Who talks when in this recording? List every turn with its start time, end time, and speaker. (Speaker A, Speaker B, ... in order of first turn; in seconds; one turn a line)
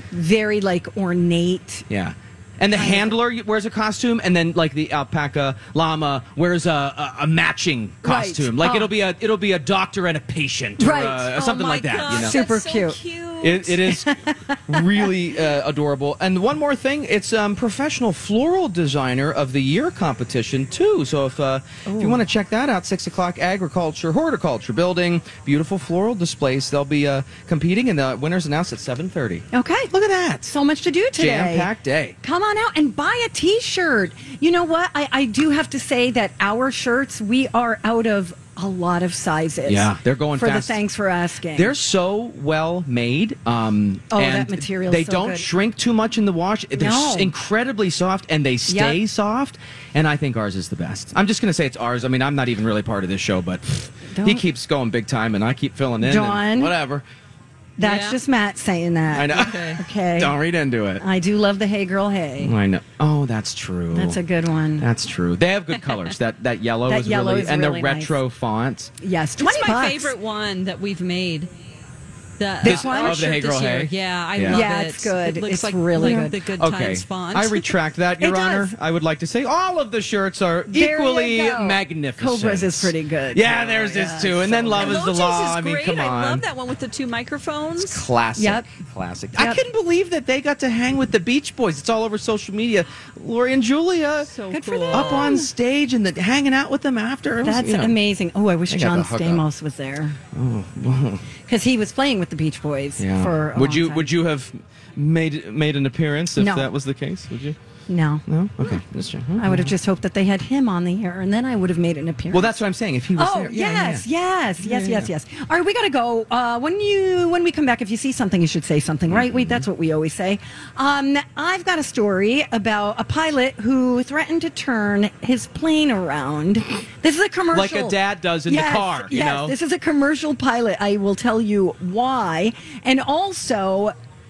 Speaker A: 0.1-1.9
Speaker B: 1.9-12.4
Speaker A: 2.7-3.1
Speaker A: 8.0-8.9
Speaker A: 10.8-11.5
Speaker C: 11.4-13.8
Speaker A: 12.0-13.0
Speaker B: 13.4-14.1
Speaker A: 13.8-15.1
Speaker B: 14.7-30.6
Speaker A: 21.9-22.2
Speaker A: 29.5-29.9
Speaker A: 30.5-31.7
Speaker B: 31.1-32.1
Speaker A: 32.2-41.7
Speaker B: 39.6-40.8
Speaker B: 41.5-57.0
Speaker A: 44.1-45.5
Speaker A: 46.7-47.3
Speaker A: 48.7-49.0
Speaker A: 54.1-54.4
Speaker A: 56.0-56.7
Speaker A: 57.8-60.3
Speaker C: 57.8-58.2
Speaker B: 59.1-61.0
Speaker C: 59.3-59.8
Speaker A: 61.0-62.5
Speaker B: 62.4-64.2
Speaker A: 63.9-64.9
Speaker B: 64.8-68.9
Speaker A: 66.9-68.1
Speaker A: 69.0-70.1
Speaker C: 69.4-71.5
Speaker C: 72.4-77.8
Speaker A: 72.6-73.4
Speaker B: 72.6-74.6
Speaker A: 74.5-76.3
Speaker B: 76.0-86.4
Speaker A: 78.2-78.7
Speaker A: 80.7-85.0
Speaker C: 84.8-88.1
Speaker B: 87.8-94.3
Speaker A: 88.4-88.7
Speaker A: 89.3-89.6
Speaker C: 94.3-95.4
Speaker A: 94.5-95.5
Speaker B: 94.9-98.0
Speaker A: 97.4-100.2
Speaker B: 98.7-99.4
Speaker B: 100.3-101.2
Speaker A: 101.5-104.1
Speaker B: 103.0-107.5
Speaker A: 106.4-106.7
Speaker A: 107.9-108.8
Speaker B: 108.3-109.7
Speaker A: 109.4-112.6
Speaker B: 112.3-114.0
Speaker A: 113.2-133.9
Speaker B: 114.6-115.1
Speaker B: 119.1-119.7
Speaker B: 127.5-129.5